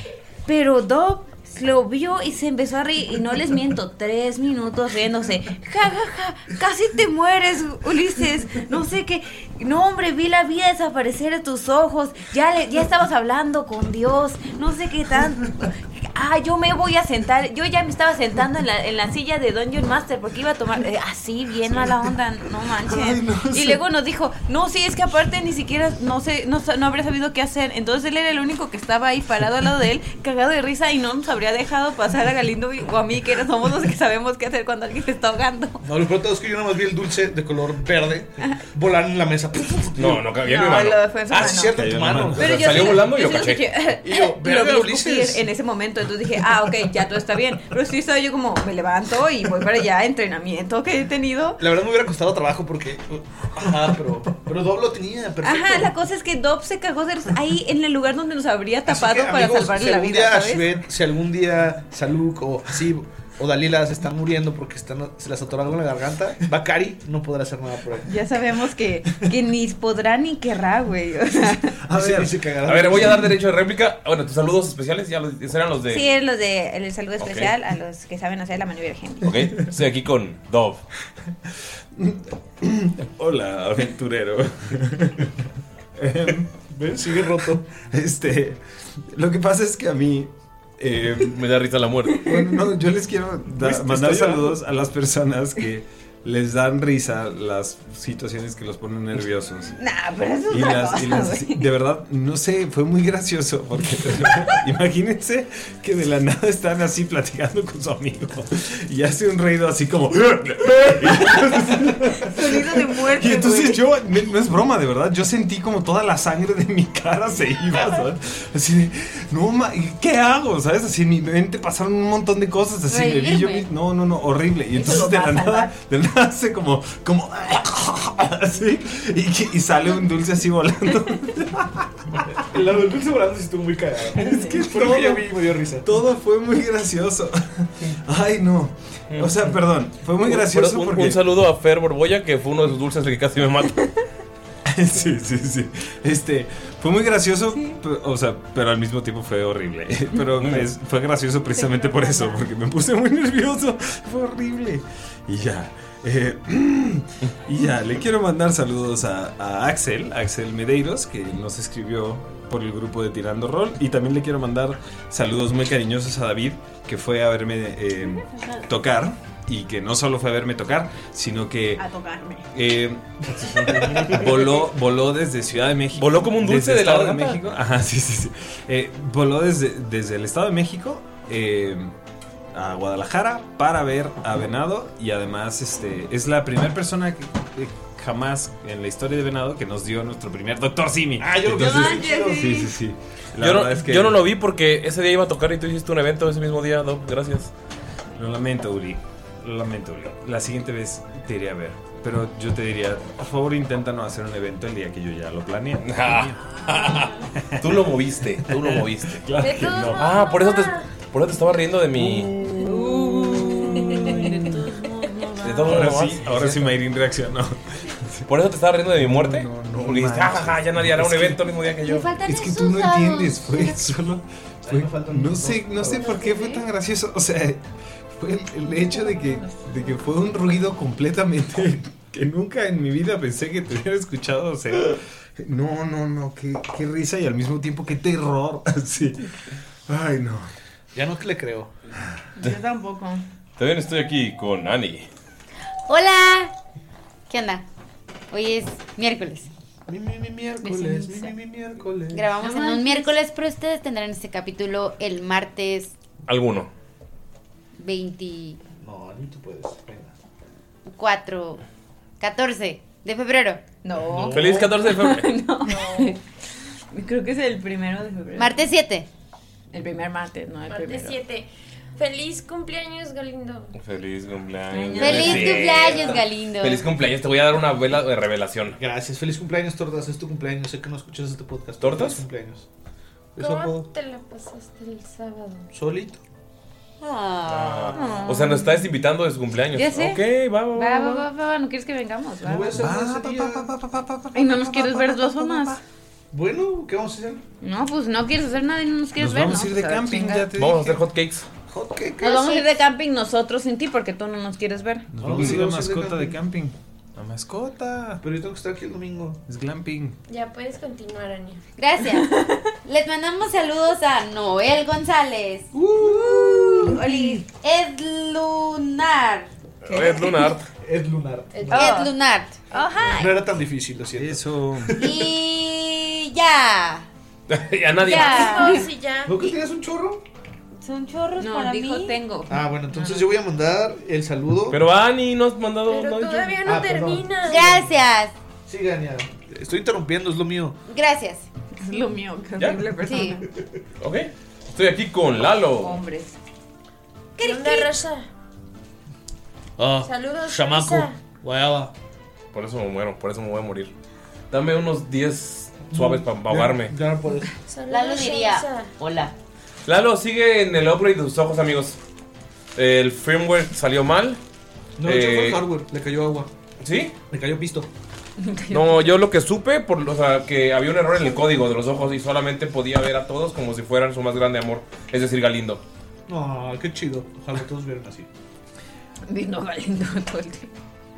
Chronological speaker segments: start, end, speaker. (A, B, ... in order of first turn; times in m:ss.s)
0:00.5-0:35.8 A
0:22.8-0:23.8 B
0:35.8-0:43.0 C
0:40.0-0:41.0 D
0:40.4-0:41.8 A
0:41.6-0:42.6 B
0:42.4-0:51.6 A
0:42.4-0:43.7 D
0:44.0-0:45.5 C
0:51.6-0:56.0 C
0:55.4-1:00.7 A
0:58.9-1:08.2 C
1:08.0-1:11.8 A
1:11.8-1:12.3 B
1:11.9-1:13.4 C
1:12.7-1:16.1 D
1:15.9-1:19.3 A
1:17.2-1:17.5 D
1:19.2-1:20.8 D
1:21.9-1:25.4 B
1:26.0-1:26.5 B
1:26.7-1:27.6 C
1:27.9-1:31.4 B
1:31.2-1:32.3 D
1:32.2-1:39.8 B
1:33.5-1:34.6 C
1:39.8-1:41.6 A
1:40.5-2:12.2 B
1:52.2-1:53.8 A
2:02.9-2:03.7 A
2:04.7-2:05.7 A
2:12.4-2:15.9 C
2:14.2-2:21.2 B
2:19.1-2:19.5 D
2:20.2-2:23.9 D
2:24.7-2:51.9 B
2:30.4-2:30.7 D
2:31.6-2:32.4 A
2:48.4-2:48.6 A
2:51.8-2:52.5 A
2:52.5-2:53.0 B
2:53.6-3:02.0 B
2:53.6-2:54.0 D
2:56.0-2:57.4 D
3:02.5-3:14.3 B
3:11.2-3:12.6 C
3:11.5-3:12.7 A
3:13.4-3:17.5 D
3:18.2-3:26.4 B
3:25.8-3:29.2 D
3:27.0-3:27.8 B
3:28.4-3:30.1 B
3:29.4-3:30.9 E
3:29.9-3:32.3 D
3:32.0-3:34.5 B
3:32.6-3:35.7 A
3:35.4-3:36.8 D
3:35.6-3:38.3 B
3:38.3-3:42.1 D
3:39.0-3:41.4 B
3:41.9-3:43.3 F
3:42.2-4:00.5 B
3:42.9-3:43.7 A
3:44.6-3:46.2 C
3:46.1-3:46.6 A
3:49.2-3:49.6 A
4:00.9-4:01.7 C
4:02.4-4:03.2 A
4:03.6-4:05.1 D
4:05.9-4:06.5 F
4:07.3-4:07.6 F
4:08.3-4:09.5 F
4:09.9-4:12.3 C
4:10.6-4:11.3 A
4:12.1-4:15.9 F
4:12.4-4:13.1 A
4:16.3-4:16.7 D
4:17.8-4:18.6 F
4:18.8-4:20.1 C
4:20.9-4:21.6 F
4:22.2-4:23.7 F
4:23.8-4:26.2 A
4:24.0-4:24.9 C
4:24.3-4:25.4 D
4:25.7-4:26.2 E
4:26.9-4:28.6 A
4:28.4-4:29.1 F
4:29.7-4:31.2 A
4:30.7-4:33.7 E
4:33.8-4:38.8 D
4:34.7-4:35.7 A
4:35.0-4:36.9 F
4:38.8-4:42.7 C
4:41.8-4:42.2 D
4:43.4-4:43.9 C
4:43.4-4:45.7 E
4:45.7-4:46.2 C
4:47.0-4:48.2 F
4:47.5-4:51.3 D
4:47.9-4:48.7 A
4:49.7-4:52.8 A
4:52.4-4:53.7 C
4:52.8-4:55.8 B
4:54.3-4:55.8 A
4:56.3-4:57.4 C
4:57.6-5:00.5 A
4:59.1-5:01.0 B
5:00.6-5:01.5 D
5:01.7-5:02.8 C
5:02.2-5:05.1 A
5:05.1-5:08.2 B
5:05.2-5:06.4 C
5:08.2-5:09.4 C
5:09.5-5:10.2 B
5:10.3-5:11.6 E
5:11.8-5:12.3 F
5:12.0-5:12.7 A
5:12.8-5:15.7 F
5:15.7-5:17.3 C
5:16.0-5:17.5 A
5:17.5-5:19.5 F
5:19.8-5:20.6 D
5:19.9-5:20.5 A
5:20.8-5:21.9 C
5:21.5-5:21.9 E
5:21.7-5:23.4 A
5:21.7-5:22.8 F
5:23.1-5:25.3 C
5:24.1-5:25.1 B
5:25.0-5:27.1 F
5:27.5-5:28.7 D
5:28.0-5:29.3 E
5:28.0-5:28.9 A
5:28.2-5:28.8 F
5:29.2-5:30.2 C
5:30.8-5:32.2 F
5:31.4-5:33.2 A
5:32.5-5:34.8 C
5:34.7-5:36.6 D
5:35.9-5:37.8 E
5:36.6-5:37.9 C
5:37.4-5:38.3 F
5:38.7-5:40.8 C
5:40.9-5:41.5 F
5:41.7-5:43.4 A
5:42.6-5:42.8 D
5:43.0-5:43.4 F
5:44.0-5:46.0 D
5:45.7-5:46.4 A
5:47.4-5:47.9 A
5:47.4-5:48.3 E
5:49.8-5:51.9 C
5:50.0-5:51.2 E
5:52.5-5:53.9 D
5:54.5-5:56.9 D
5:55.9-5:57.5 C
5:57.6-5:58.9 E
5:57.9-5:59.3 F
5:59.9-6:02.0 D
6:02.8-6:04.4 D
6:05.0-6:06.5 C
6:05.0-6:05.6 D
6:06.8-6:07.1 D
6:07.3-6:07.9 C
6:08.4-6:09.1 A
6:08.7-6:15.8 D
6:16.3-6:18.3 C
6:19.3-6:20.7 A